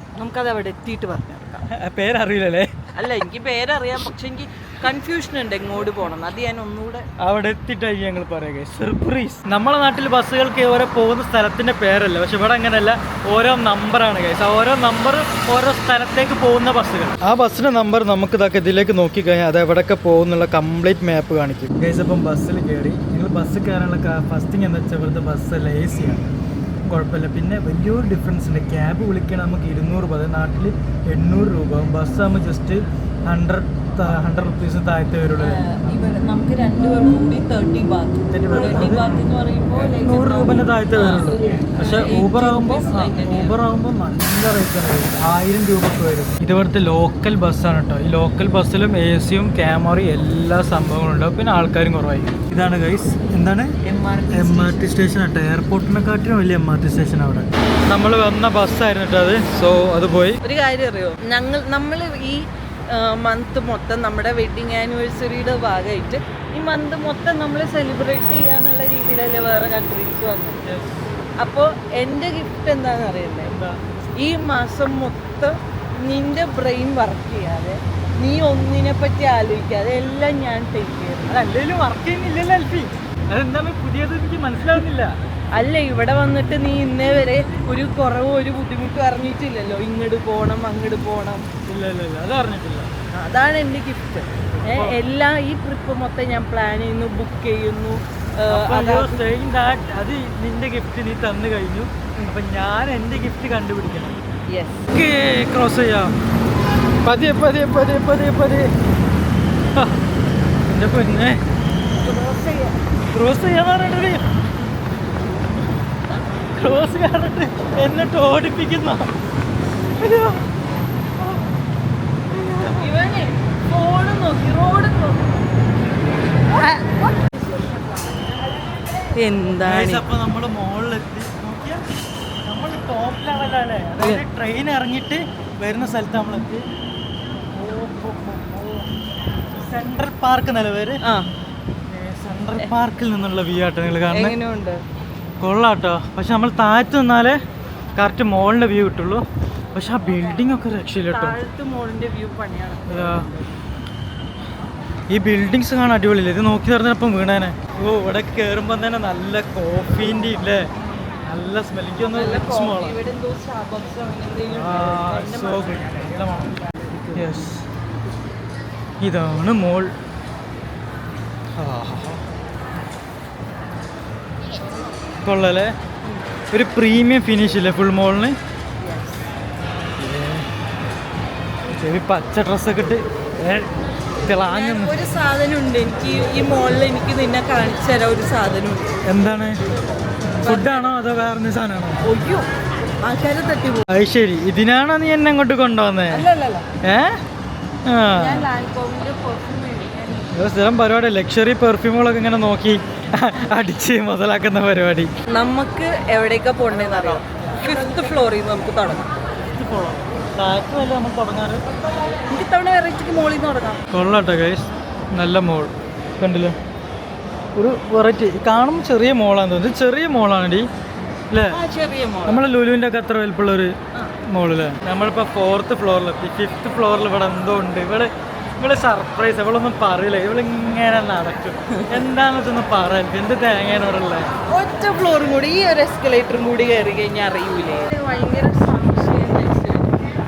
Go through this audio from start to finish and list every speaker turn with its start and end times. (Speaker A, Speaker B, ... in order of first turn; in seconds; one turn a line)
Speaker A: 0.2-1.6
Speaker B: 1.7-2.7
Speaker A: 2.9-7.0
Speaker B: 7.2-26.3
Speaker B: 26.9-35.6
Speaker A: 35.4-43.6
Speaker B: 38.3-39.2
Speaker B: 39.9-53.8
Speaker A: 53.8-54.9
Speaker B: 54.3-60.4
Speaker A: 60.4-70.6
Speaker B: 70.6-71.0
Speaker A: 71.4-73.5
Speaker B: 73.4-73.8
Speaker A: 74.2-81.3
Speaker B: 81.3-85.1
Speaker A: 85.5-91.5
Speaker B: 91.7-92.9
Speaker A: 93.1-99.2
Speaker B: 94.7-95.0
Speaker B: 98.5-104.2
Speaker A: 104.5-104.9
Speaker B: 104.9-106.1
Speaker B: 107.0-108.7
Speaker B: 109.7-110.0
Speaker B: 110.7-111.4
Speaker A: 112.0-112.8
Speaker B: 113.1-114.2
Speaker B: 116.5-119.1
Speaker B: 120.0-120.5
Speaker B: 122.3-122.9
Speaker A: 122.7-125.4
Speaker A: 126.5-126.9
Speaker A: 129.1-130.0
Speaker B: 129.6-131.8
Speaker B: 132.4-136.7
Speaker A: 134.0-134.2
Speaker B: 137.5-138.9
Speaker B: 139.5-141.0
Speaker A: 141.0-141.3
Speaker B: 141.9-144.3
Speaker A: 144.1-144.8
Speaker B: 145.4-147.4
Speaker B: 148.0-149.2
Speaker B: 149.7-151.4
Speaker A: 151.1-153.5
Speaker B: 152.9-153.3
Speaker B: 155.1-160.7
Speaker B: 161.3-163.0
Speaker A: 162.1-166.0
Speaker B: 164.5-166.6
Speaker A: 166.9-167.3
Speaker B: 167.2-167.6
Speaker B: 169.0-169.9
Speaker B: 171.6-172.2
Speaker B: 175.2-175.7
Speaker B: 176.5-178.3
Speaker A: 178.8-179.3
Speaker B: 180.0-180.4
Speaker B: 181.7-183.7
Speaker B: 184.2-185.0
Speaker A: 184.4-189.0
Speaker B: 189.1-189.6
Speaker B: 190.3-192.0
Speaker A: 190.3-191.0
Speaker A: 192.0-192.4
Speaker A: 193.0-193.8
Speaker B: 193.9-196.2
Speaker A: 196.1-196.7
Speaker B: 196.8-197.2
Speaker B: 197.8-198.5
Speaker A: 198.1-200.3
Speaker B: 200.3-205.1
Speaker A: 205.3-209.1
Speaker B: 209.5-211.6
Speaker A: 212.3-213.8
Speaker B: 213.9-216.6
Speaker B: 217.6-220.7
Speaker B: 221.3-221.6
Speaker A: 221.5-222.4
Speaker B: 222.3-223.7
Speaker B: 224.3-234.3
Speaker A: 231.7-232.0
Speaker A: 234.5-240.0